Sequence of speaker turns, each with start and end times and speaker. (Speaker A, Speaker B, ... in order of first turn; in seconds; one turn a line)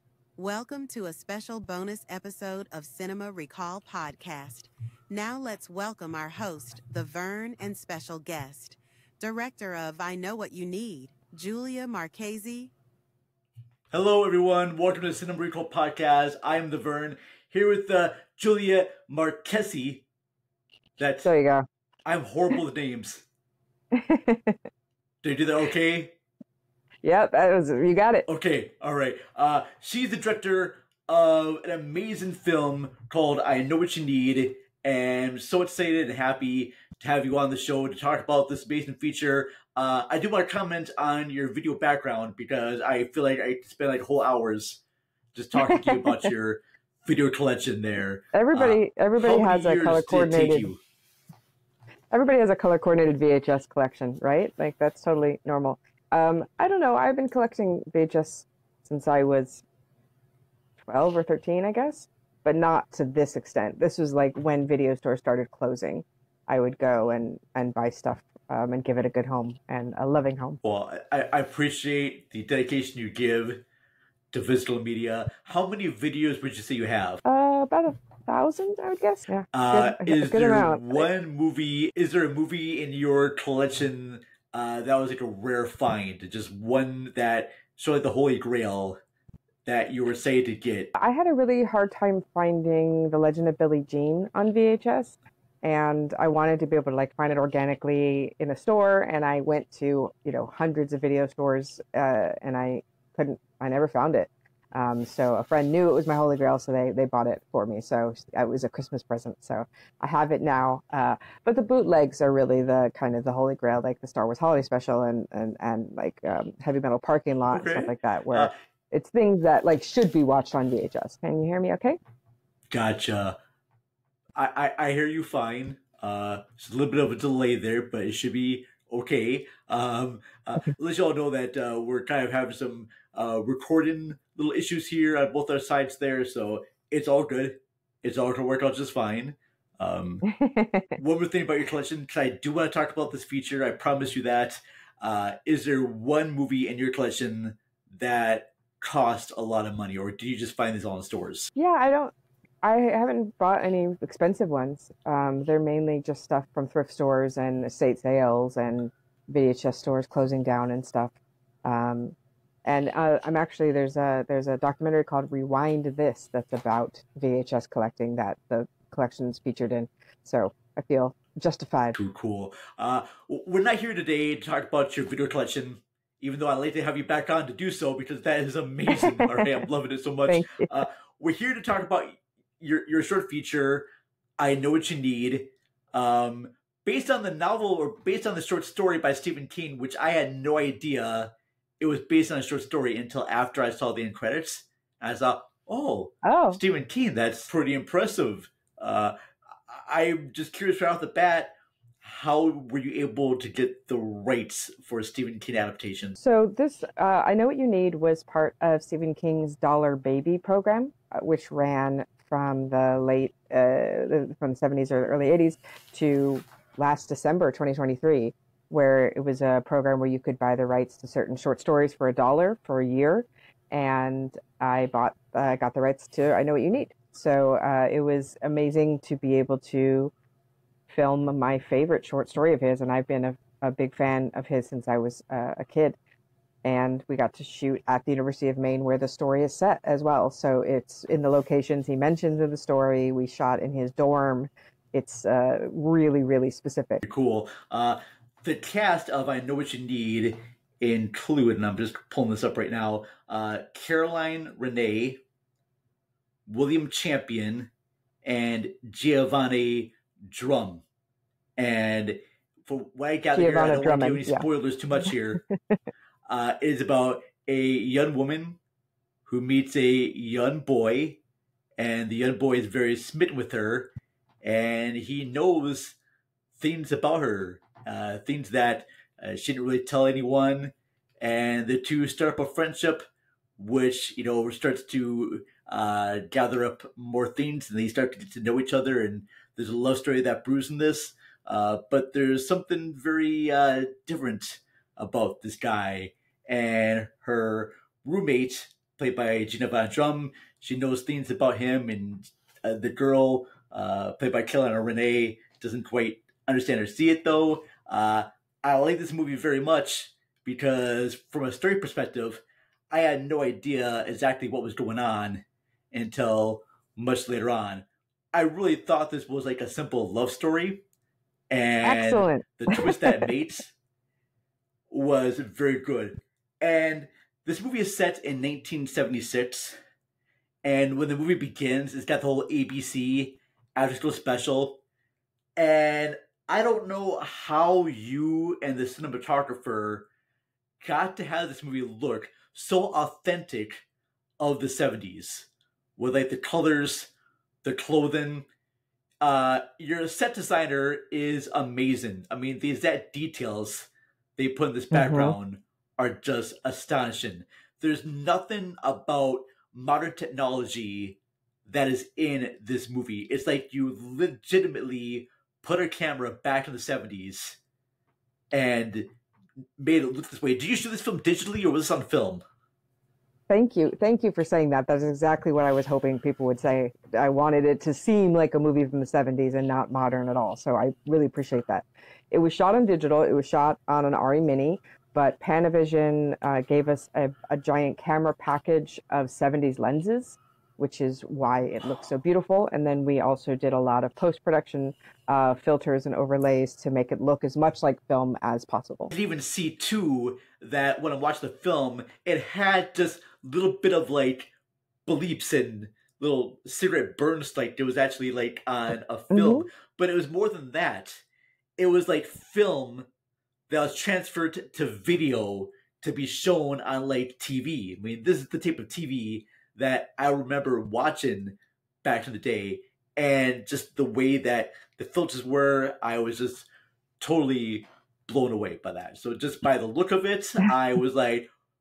Speaker A: 0.3-12.7
Speaker B: 13.9-20.1
Speaker B: 21.0-21.3
Speaker C: 21.2-21.6
Speaker B: 22.0-23.2
Speaker C: 23.9-24.6
Speaker B: 25.2-26.1
Speaker C: 27.0-28.2
Speaker B: 28.3-44.8
Speaker B: 45.3-50.8
Speaker C: 45.6-46.2
Speaker C: 48.3-50.7
Speaker C: 52.1-59.6
Speaker C: 60.9-70.6
Speaker B: 70.6-73.6
Speaker B: 74.3-77.2
Speaker C: 77.2-81.0
Speaker B: 79.5-89.0
Speaker B: 89.6-90.9
Speaker C: 90.9-122.0
Speaker B: 117.5-118.5
Speaker B: 122.7-123.4
Speaker B: 124.3-140.2
Speaker C: 140.3-140.9
Speaker B: 140.9-151.5
Speaker C: 151.5-161.1
Speaker C: 161.6-172.0
Speaker B: 171.9-183.9
Speaker C: 178.9-179.6
Speaker C: 180.3-180.7
Speaker B: 184.4-199.1
Speaker C: 196.2-196.6
Speaker B: 199.7-206.2
Speaker C: 206.2-230.1
Speaker C: 230.9-236.0
Speaker C: 236.6-247.0
Speaker B: 247.0-255.2
Speaker B: 256.5-257.7
Speaker B: 258.2-260.8
Speaker B: 261.6-265.4
Speaker C: 263.3-264.4
Speaker B: 266.3-268.6
Speaker B: 269.3-271.2
Speaker B: 271.8-273.9
Speaker B: 274.4-276.0
Speaker B: 276.6-283.0
Speaker B: 283.6-320.8
Speaker B: 321.5-323.7
Speaker C: 321.8-323.3
Speaker B: 324.9-329.8
Speaker B: 330.6-334.8
Speaker B: 335.6-340.1
Speaker B: 340.8-343.8
Speaker B: 344.4-347.1
Speaker B: 347.6-348.5
Speaker B: 349.2-367.6
Speaker C: 354.9-355.4
Speaker B: 368.5-369.1
Speaker B: 369.8-372.4
Speaker C: 373.5-399.1
Speaker B: 399.1-404.5
Speaker B: 405.1-411.2
Speaker C: 409.3-409.7
Speaker B: 411.8-413.1
Speaker B: 413.7-426.7
Speaker B: 427.2-431.5